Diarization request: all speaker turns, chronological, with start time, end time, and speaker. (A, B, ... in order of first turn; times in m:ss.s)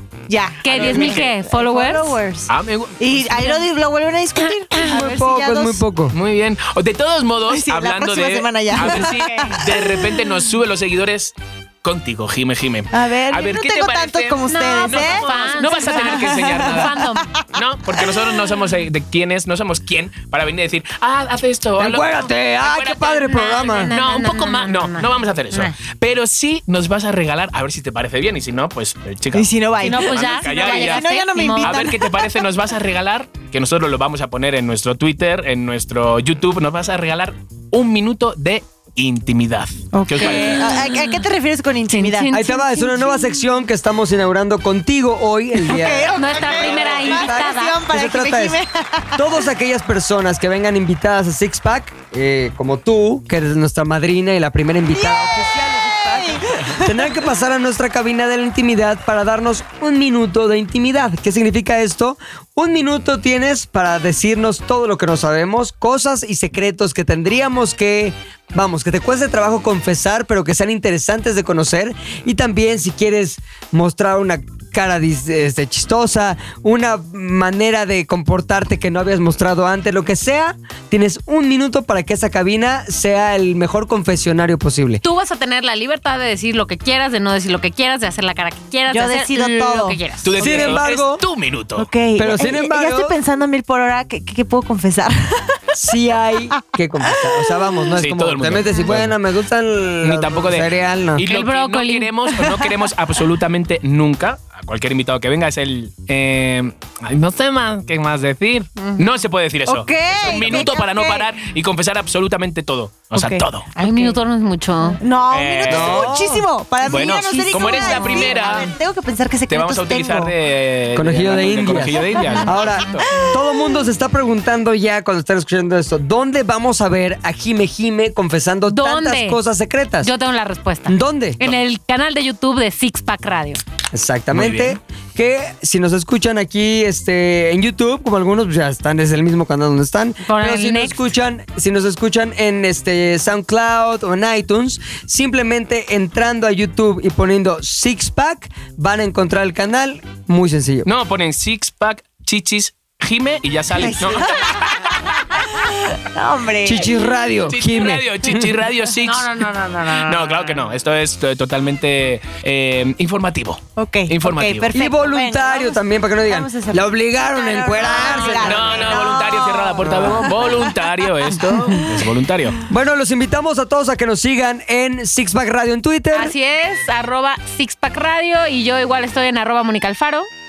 0:00.3-0:05.8 A
0:00.6-0:02.2 B
0:00.7-0:01.4 C
0:02.5-0:03.6 C
0:04.7-0:06.1 D
0:06.1-0:17.0 C
0:07.5-0:10.1 A
0:12.9-0:17.4 A
0:14.5-0:17.3 B
0:17.5-0:31.0 C
0:21.8-0:23.9 D
0:23.3-0:25.7 B
0:29.3-0:32.3 A
0:29.8-0:32.0 B
0:31.6-0:40.8 C
0:39.9-0:42.3 A
0:40.2-0:41.1 B
0:41.9-0:43.2 B
0:42.3-0:48.6 D
0:45.6-0:49.2 A
0:46.2-0:47.8 B
0:49.2-1:25.0 D
0:54.9-0:57.1 A
1:25.0-1:30.3 B
1:28.9-1:30.8 A
1:30.2-1:31.9 C
1:30.4-1:31.2 D
1:31.8-1:35.8 A
1:32.2-1:33.2 D
1:35.8-1:41.2 D
1:37.9-1:39.1 C
1:40.0-1:53.7 C
1:41.2-1:42.1 B
1:42.3-1:42.6 A
1:48.8-1:49.1 B
1:49.6-1:51.3 A
1:53.1-1:54.2 A
1:53.8-1:55.0 B
1:54.9-2:00.3 A
1:55.3-1:56.2 C
1:55.7-1:56.5 D
1:56.8-1:58.7 C
1:57.1-1:58.7 B
1:59.5-2:03.1 C
2:00.9-2:10.1 D
2:01.8-2:02.5 A
2:02.1-2:02.5 B
2:03.1-2:03.4 A
2:08.7-2:09.4 B
2:10.0-2:13.6 B
2:10.9-2:11.4 D
2:13.9-2:30.9 D
2:14.3-2:14.8 C
2:20.2-2:21.1 B
2:30.8-2:35.0 C
2:33.7-2:37.0 A
2:36.6-2:38.5 D
2:37.4-2:44.7 C
2:39.0-2:40.6 B
2:43.8-2:50.7 A
2:44.7-2:48.9 D
2:48.3-2:52.6 C
2:48.6-2:49.6 B
2:49.8-2:50.4 D
2:51.4-2:52.0 A
2:52.7-2:56.3 D
2:56.1-3:00.3 B